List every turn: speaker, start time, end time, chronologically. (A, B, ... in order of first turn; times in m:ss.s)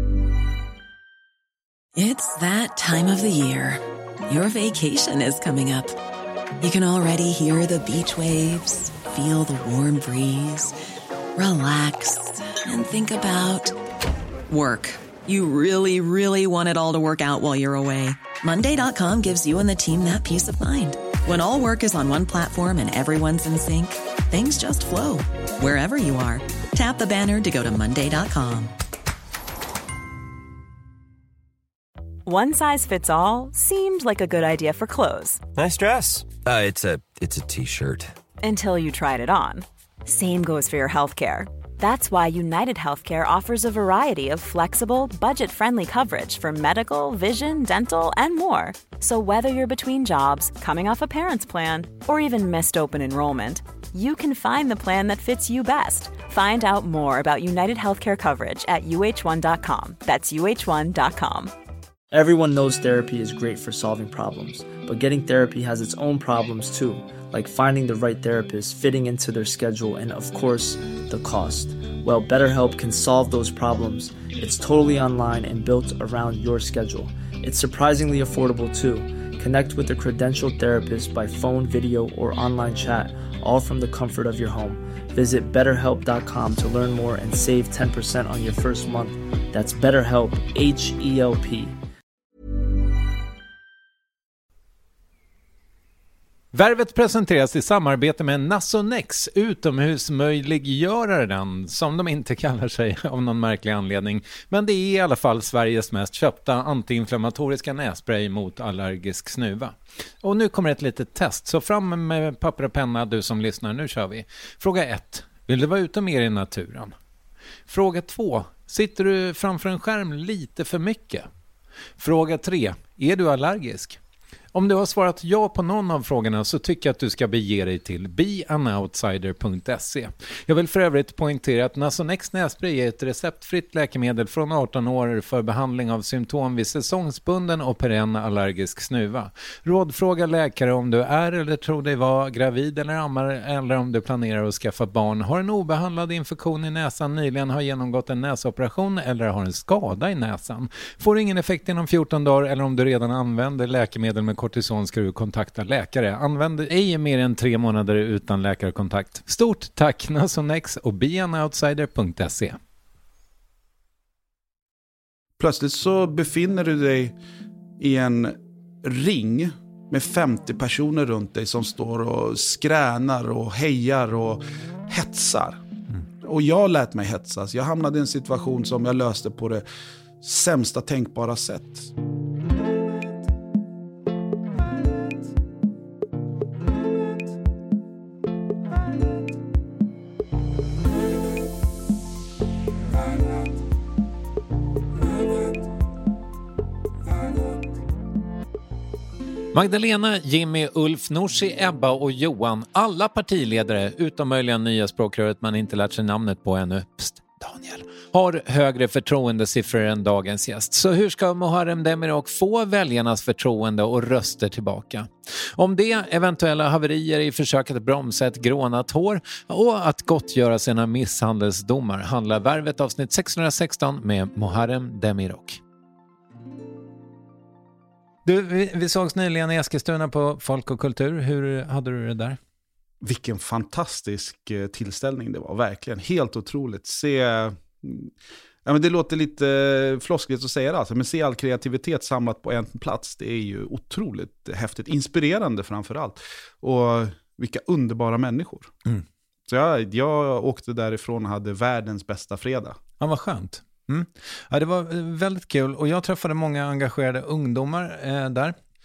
0:01.9-0:06.0 A
0:06.6-0:10.7 A
0:11.4-0:13.8 A
0:14.5-0:28.7 A
0:32.2-0:35.4 B
0:35.5-0:38.1 C
0:38.4-1:01.5 B
1:02.1-1:31.7 D
1:36.5-1:56.9 E
1:57.7-2:01.3 E
2:02.0-2:04.0 E
2:04.5-2:42.6 E
2:45.4-2:47.2 F
2:47.8-2:55.6 F
2:56.2-2:59.6 F
3:00.2-3:01.9 F
3:19.5-3:45.6 E
3:48.2-3:52.4 E
3:53.0-3:58.1 F
3:58.6-4:08.7 F
4:09.5-4:12.8 F
4:13.0-4:18.6 E